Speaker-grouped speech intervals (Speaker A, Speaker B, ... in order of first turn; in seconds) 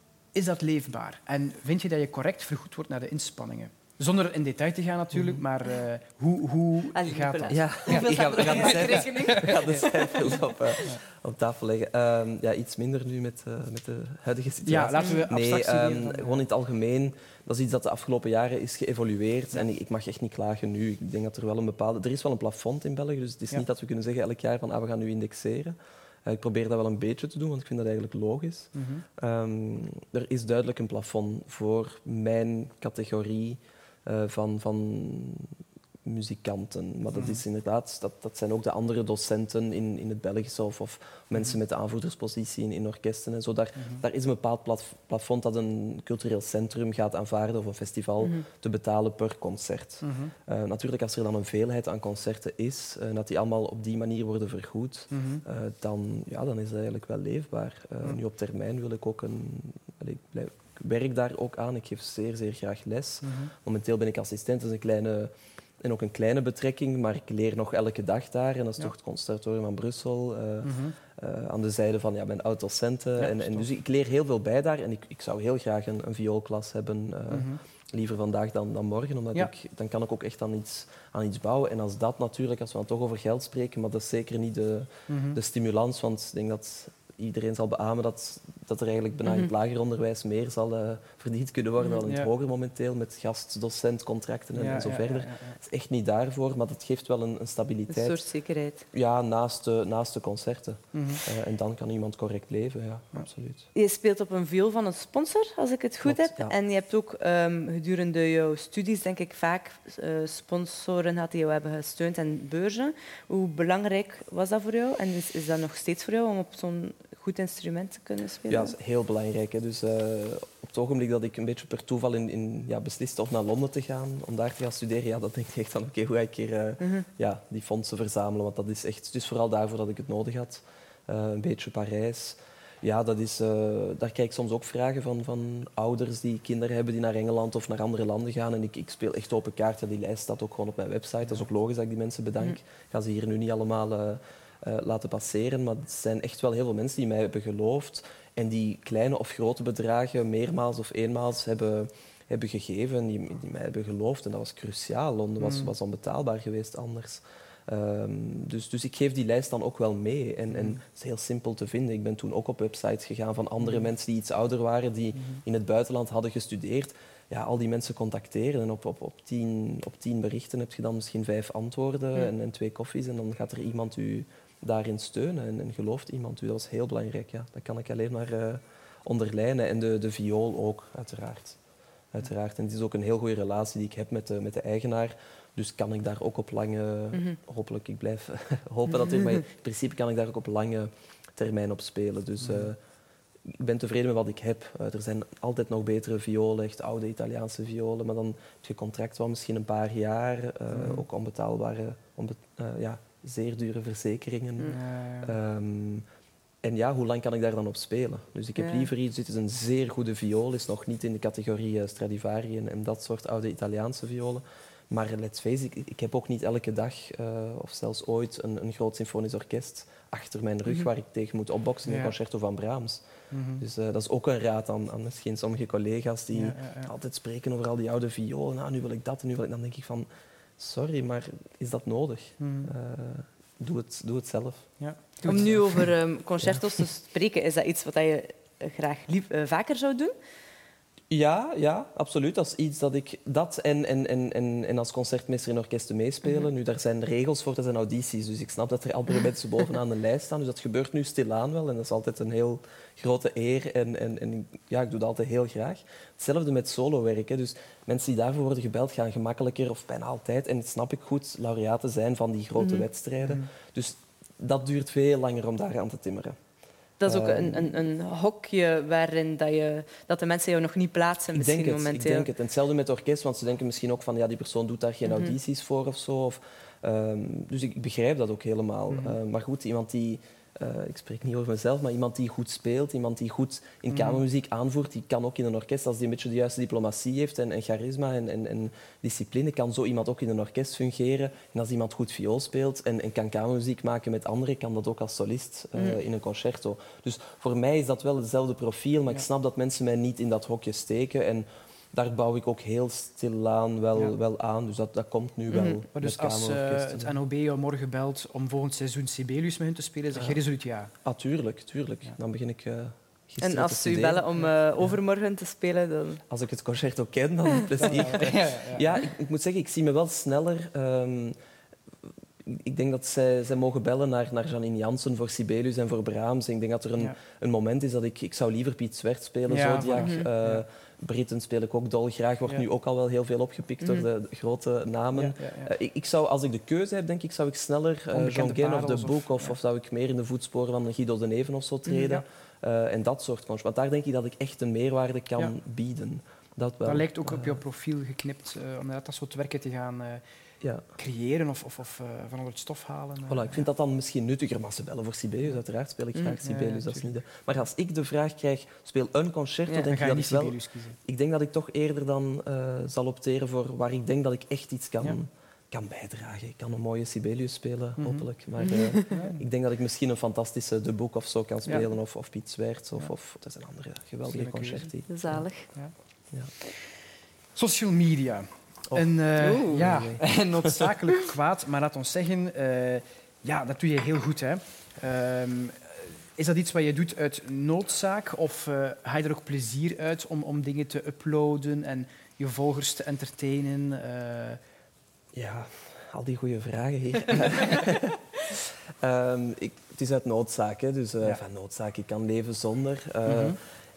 Speaker A: 0.3-9.9, 14.6-16.4, 28.7-29.0, 37.1-37.4, 43.8-44.0, 50.0-50.3, 55.1-55.4, 63.2-63.5, 70.6-70.9, 73.2-73.7, 77.3-77.6, 85.1-85.4, 92.0-92.3, 94.5-95.6, 100.9-101.2, 155.4-155.7, 160.5-160.8, 192.4-192.7, 200.7-201.0, 204.7-205.3, 221.8-222.1, 223.3-223.6, 226.3-226.9, 232.4-232.7, 234.8-235.9, 278.9-279.1, 283.9-284.2, 305.9-310.9, 317.8-318.9, 329.5-330.6, 335.1-335.7, 338.1-339.6, 341.9-342.2, 346.8-350.2, 350.9-353.6, 356.4-357.1, 359.8-361.0, 368.0-368.2, 369.1-369.4, 374.2-374.9, 377.5-394.6, 403.2-403.6
Speaker B: 6.9-10.9, 15.0-15.2, 97.9-98.8, 103.7-118.7, 126.8-127.0, 208.6-208.9, 235.3-240.1, 267.0-272.3, 275.1-275.3, 305.5-305.8, 313.4-316.2, 329.9-330.2, 368.6-369.1, 375.1-375.7, 379.4-379.9
Speaker C: 7.5-98.2, 98.9-103.7, 106.0-106.5, 118.5-181.6, 182.1-192.8, 193.4-206.0, 206.6-223.0, 223.6-234.7, 235.2-235.5, 241.1-266.4, 267.1-267.7, 271.3-307.1, 311.0-314.2, 316.3-321.4, 322.4-347.6, 353.3-375.4, 379.7-380.9, 395.3-403.6